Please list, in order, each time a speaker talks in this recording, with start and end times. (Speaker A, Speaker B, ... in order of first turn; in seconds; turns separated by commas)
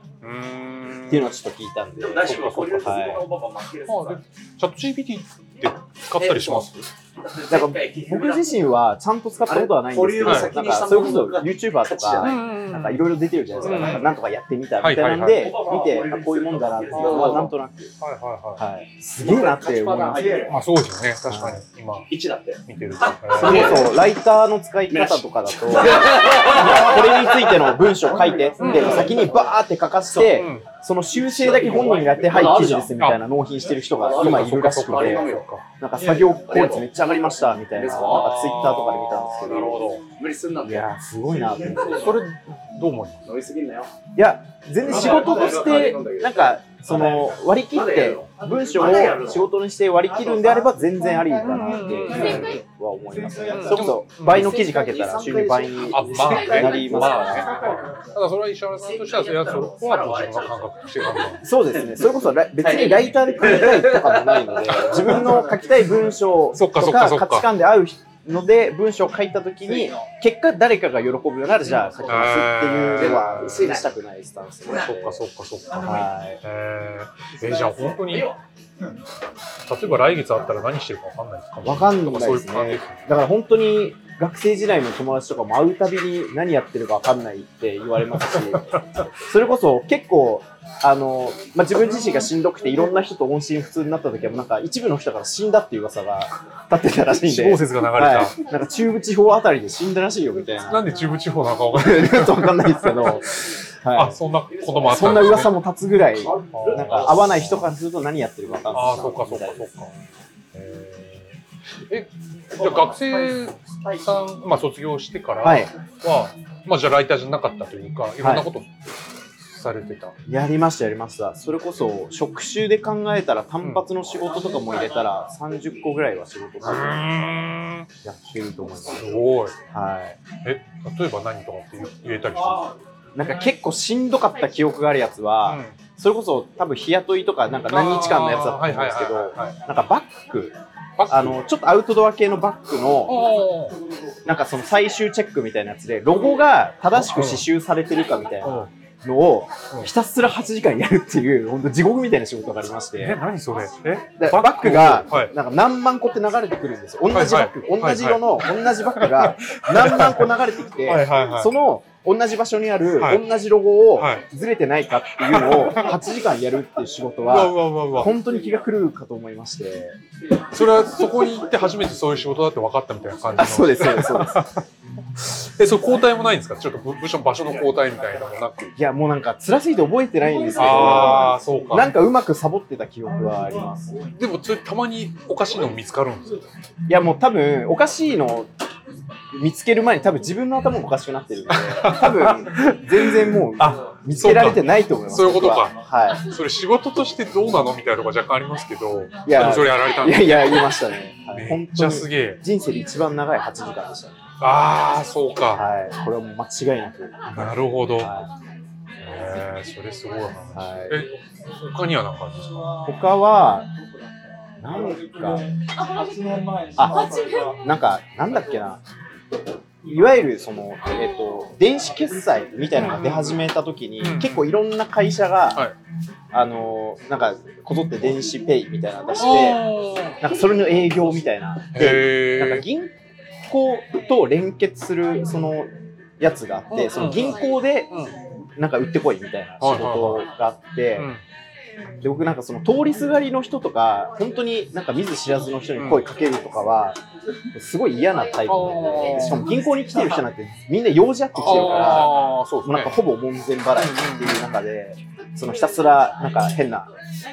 Speaker A: 0.2-1.3, Speaker B: 1.1-3.2, Speaker C: 2.0-4.2, Speaker A: 2.2-3.2, Speaker A: 3.9-6.8, Speaker C: 6.2-8.6, Speaker B: 7.5-17.9, Speaker C: 9.5-12.3, Speaker A: 10.2-10.6, Speaker A: 12.2-13.1, Speaker C: 13.5-14.0, Speaker A: 13.6-14.1, Speaker A: 14.8-15.6, Speaker C: 16.8-17.5, Speaker A: 16.9-18.6, Speaker B: 18.6-20.5, Speaker C: 19.2-20.5, Speaker A: 20.5-22.1, Speaker B: 21.3-21.6, Speaker C: 22.1-24.0, Speaker A: 22.6-23.9, Speaker B: 23.4-39.8, Speaker C: 24.9-27.6, Speaker A: 28.6-29.0, Speaker C: 28.7-29.1, Speaker A: 30.2-30.7, Speaker C: 31.2-32.9, Speaker C: 34.0-35.4, Speaker A: 34.1-35.7, Speaker C: 36.4-36.9, Speaker C: 37.8-38.8, Speaker A: 38.0-40.0, Speaker C: 40.2-40.9, Speaker B: 40.6-42.1, Speaker A: 42.0-43.2, Speaker C: 43.2-43.9, Speaker B: 44.1-57.8, Speaker C: 44.8-49.5, Speaker A: 51.5-52.6, Speaker A: 53.5-54.7, Speaker A: 55.9-61.4, Speaker C: 58.9-60.7, Speaker B: 61.4-75.2, Speaker C: 62.6-65.4, Speaker A: 66.5-67.5, Speaker A: 72.1-73.8, Speaker C: 73.0-73.9, Speaker A: 74.7-78.3, Speaker B: 75.8-76.4, Speaker A: 79.6-83.1, Speaker B: 81.6-100.9, Speaker A: 88.5-89.0, Speaker A: 97.2-98.4, Speaker A: 100.6-105.5, Speaker B: 101.7-104.2, Speaker B: 104.9-109.7, Speaker C: 104.9-105.3, Speaker C: 106.2-107.2, Speaker A: 106.5-107.7, Speaker A: 108.7-109.9, Speaker A: 110.5-111.3, Speaker A: 111.9-118.7, Speaker B: 115.4-115.7, Speaker B: 118.2-118.5, Speaker A: 119.4-120.2, Speaker B: 120.3-127.0, Speaker A: 126.6-127.9, Speaker B: 128.0-130.2, Speaker A: 128.9-129.6, Speaker A: 130.4-132.7, Speaker B: 133.2-140.6, Speaker A: 135.4-135.8, Speaker A: 137.7-139.6, Speaker A: 141.0-141.4, Speaker B: 141.1-143.2, Speaker A: 143.1-143.8, Speaker B: 144.2-153.2, Speaker A: 146.9-147.4, Speaker A: 148.4-148.7, Speaker A: 153.0-155.3, Speaker B: 154.2-170.0, Speaker A: 157.1-158.3, Speaker A: 159.0-160.3, Speaker A: 160.8-161.5, Speaker A: 163.9-164.3, Speaker A: 165.2-165.9, Speaker A: 167.3-168.1, Speaker A: 170.5-174.6, Speaker B: 173.4-174.5, Speaker A: 175.2-178.7, Speaker B: 178.8-184.0, Speaker A: 180.5-181.9, Speaker A: 184.2-186.4, Speaker B: 186.9-188.5, Speaker B: 189.3-196.2, Speaker A: 191.5-200.7, Speaker B: 199.2-204.2, Speaker A: 201.3-202.4, Speaker A: 204.4-205.6, Speaker B: 205.5-208.3, Speaker A: 207.3-208.1, Speaker A: 209.0-212.8, Speaker B: 210.6-211.0, Speaker B: 212.8-213.7, Speaker B: 214.6-215.5, Speaker B: 216.8-218.8, Speaker B: 219.8-225.6, Speaker A: 222.8-223.4, Speaker A: 224.0-224.5, Speaker B: 226.3-229.6, Speaker A: 229.2-230.2, Speaker B: 230.2-232.9, Speaker A: 231.7-232.7, Speaker B: 233.5-237.9, Speaker A: 236.7-238.1, Speaker B: 238.6-241.1, Speaker A: 239.6-240.2, Speaker A: 240.9-241.2, Speaker B: 242.0-247.0, Speaker A: 245.8-246.0, Speaker B: 247.5-256.9, Speaker A: 248.4-249.4, Speaker A: 251.4-252.9, Speaker A: 253.8-254.4